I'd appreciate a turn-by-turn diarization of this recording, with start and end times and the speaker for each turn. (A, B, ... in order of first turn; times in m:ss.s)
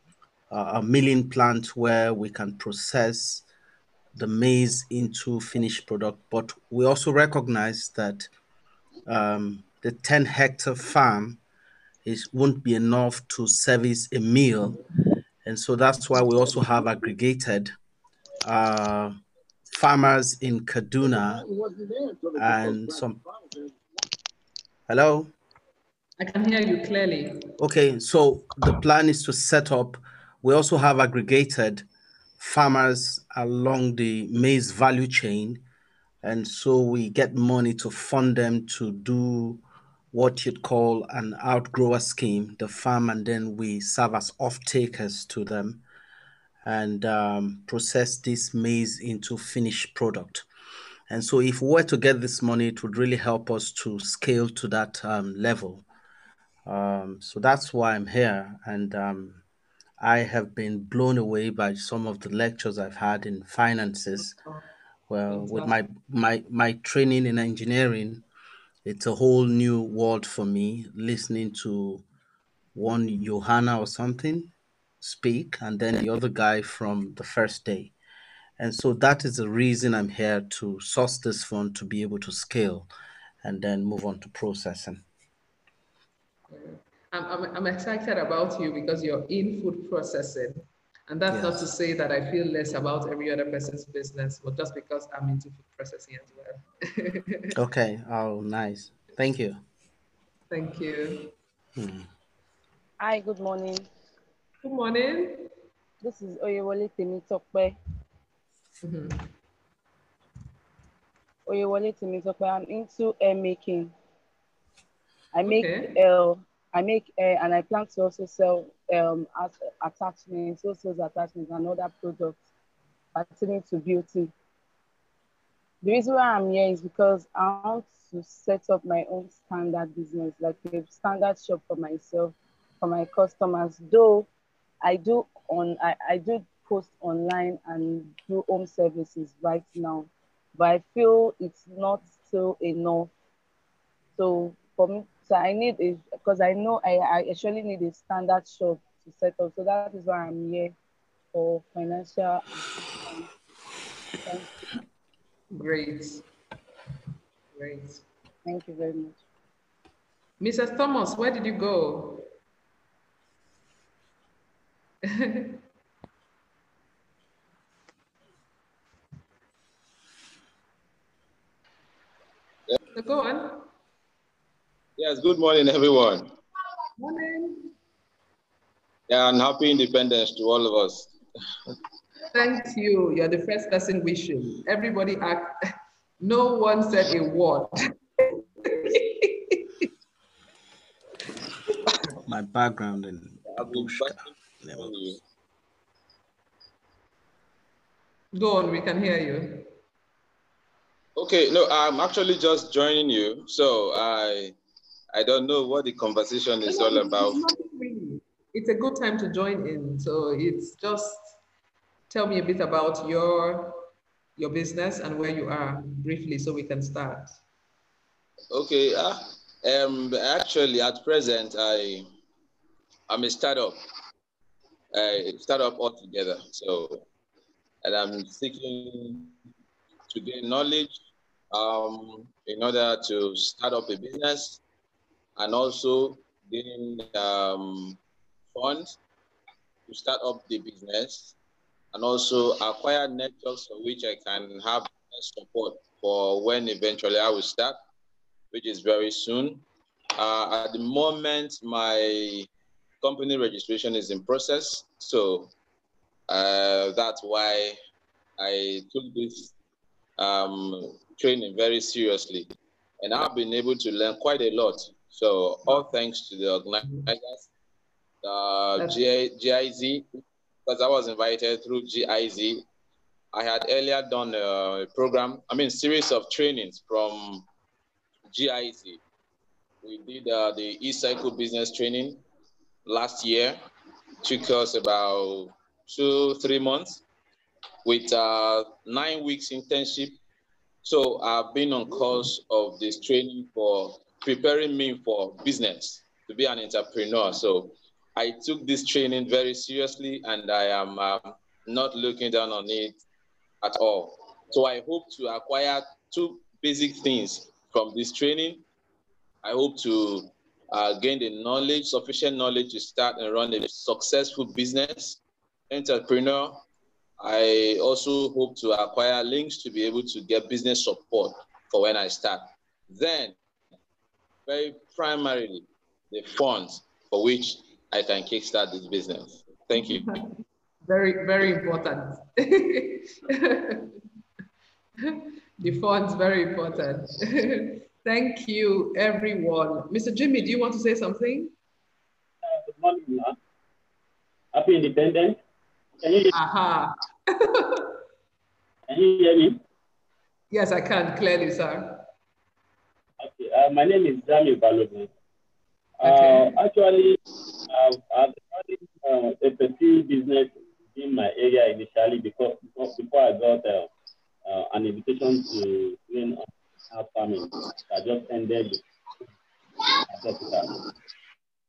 0:00.5-0:03.4 A
0:04.2-0:08.3 A
0:09.1-0:11.4 A
0:12.0-0:14.8 A
0:15.4-0:17.7 A
0:18.4-0:19.2 A
0:19.7-0:21.5 A
0:22.4-0:23.2 A
0:24.9-0:25.3 A
0:26.2-0:27.5 B
0:27.6-0:31.9 A
0:32.4-0:35.6 A
0:36.2-0:39.6 A
0:40.1-0:45.8 A
0:46.6-0:50.5 A
0:51.1-0:55.8 A
0:56.7-0:59.4 A
1:00.0-1:04.4 A
1:05.1-1:08.2 A
1:05.3-1:05.8 B
1:08.8-1:12.0 A
1:12.8-1:17.9 A
1:18.6-1:22.9 A
1:23.4-1:25.0 A
1:26.5-1:37.5 B
1:31.3-1:31.6 A
1:37.6-1:39.6 A
1:40.5-1:41.3 B
1:41.8-1:42.1 A
1:43.0-1:43.9 C
1:44.6-1:45.5 B
1:46.0-1:47.8 C
1:48.8-1:49.3 B
1:51.5-1:53.9 C
1:55.3-2:02.4 C
1:55.4-1:55.9 B
2:03.2-2:04.3 C
2:05.8-2:14.3 C
2:14.8-2:23.1 C
2:24.2-2:30.7 C
2:31.3-2:33.3 C
2:34.2-2:34.6 C
2:35.5-2:36.2 B
2:37.6-2:38.0 B
2:38.4-2:39.2 C
2:40.4-2:42.3 B
2:45.1-2:45.6 B
2:53.0-2:53.6 B
2:55.0-2:56.3 D
2:57.0-2:57.7 B
2:59.1-3:01.1 D
3:02.3-3:05.5 B
3:06.2-3:07.7 B
3:08.7-3:09.6 B
3:12.2-3:14.9 A
3:13.5-3:15.2 D
3:18.3-3:19.7 B
3:21.2-3:24.6 D
3:25.1-3:27.4 D
3:26.7-3:31.4 B
3:32.1-3:33.8 B
3:34.4-3:37.4 B
3:38.5-3:42.1 D
3:43.1-3:43.8 D
3:44.9-3:47.0 D
3:47.8-3:49.4 D
3:50.1-3:54.6 D
3:55.4-3:58.0 D
3:58.5-3:59.0 D
3:59.9-4:01.4 D
4:01.9-4:07.8 D
4:08.5-4:09.6 D
4:10.2-4:12.5 D
4:13.0-4:15.5 D
4:16.3-4:17.8 D
4:18.4-4:19.5 D
4:20.2-4:27.5 D
4:28.2-4:32.6 D
4:33.3-4:37.5 D
4:38.3-4:39.0 D
4:39.8-4:42.2 D
4:42.9-4:43.6 D
4:44.2-4:47.0 D
4:47.8-4:50.2 D
4:50.8-5:03.0 D
5:03.6-5:08.6 D
5:09.4-5:16.6 D
5:17.2-5:23.4 D
5:24.5-5:30.1 D
5:29.8-5:30.3 B
5:30.9-5:33.9 B
5:35.0-5:41.5 B
5:42.4-5:43.4 E
5:44.5-5:45.4 E
5:46.0-5:46.3 E
5:46.3-5:46.9 B
5:47.6-5:47.9 B
5:48.9-5:49.6 E
5:50.5-5:52.1 B
5:53.2-5:55.1 E
5:56.0-6:03.9 E
5:56.0-5:56.5 B
6:04.5-6:08.8 E
6:10.1-6:10.8 E